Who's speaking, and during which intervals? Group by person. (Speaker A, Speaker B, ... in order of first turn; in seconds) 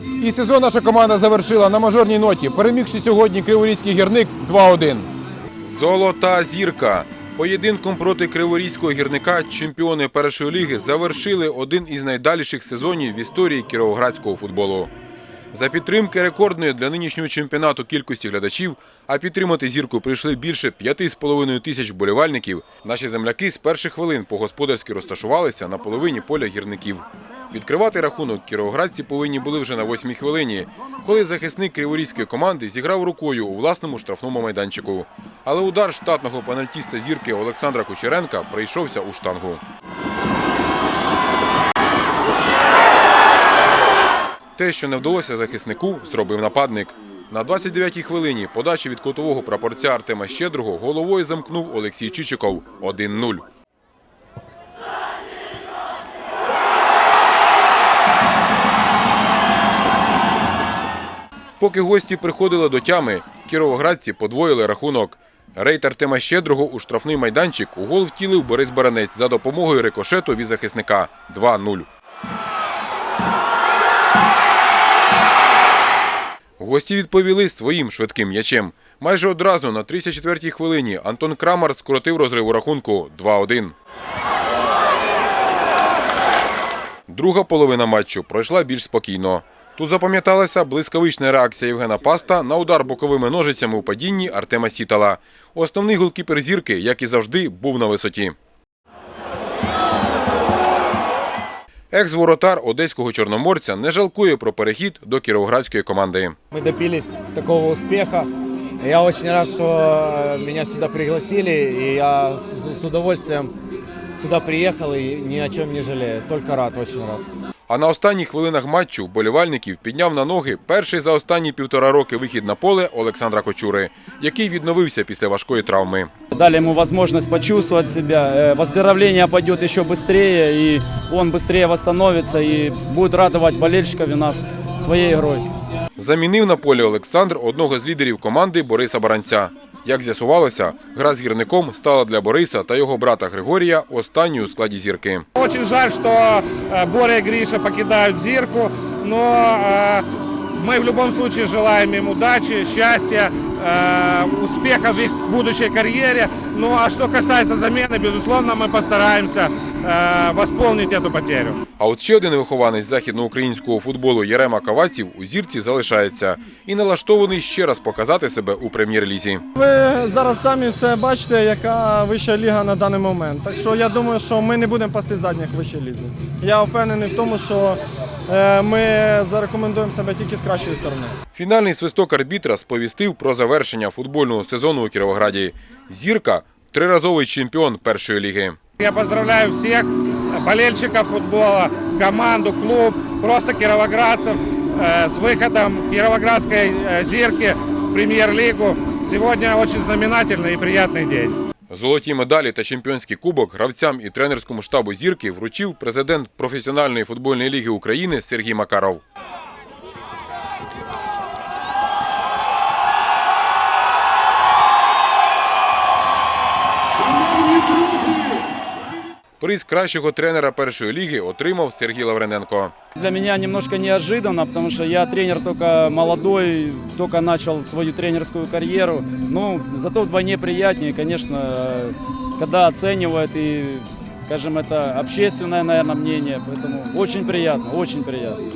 Speaker A: 0.2-5.1, 5.6-14.9, 15.5-39.6, 44.6-53.5, 61.6-71.9, 76.6-83.8, 87.1-98.4, 101.9-106.4, 117.7-126.1, 136.0-145.3, 161.8-169.4, 181.3-188.6, 201.7-209.0, 219.4-222.7
Speaker B: 106.5-108.3, 108.8-113.5, 114.2-117.2
Speaker C: 126.3-135.5, 223.0-238.4
Speaker D: 145.4-161.6, 188.8-201.3
Speaker E: 169.6-181.1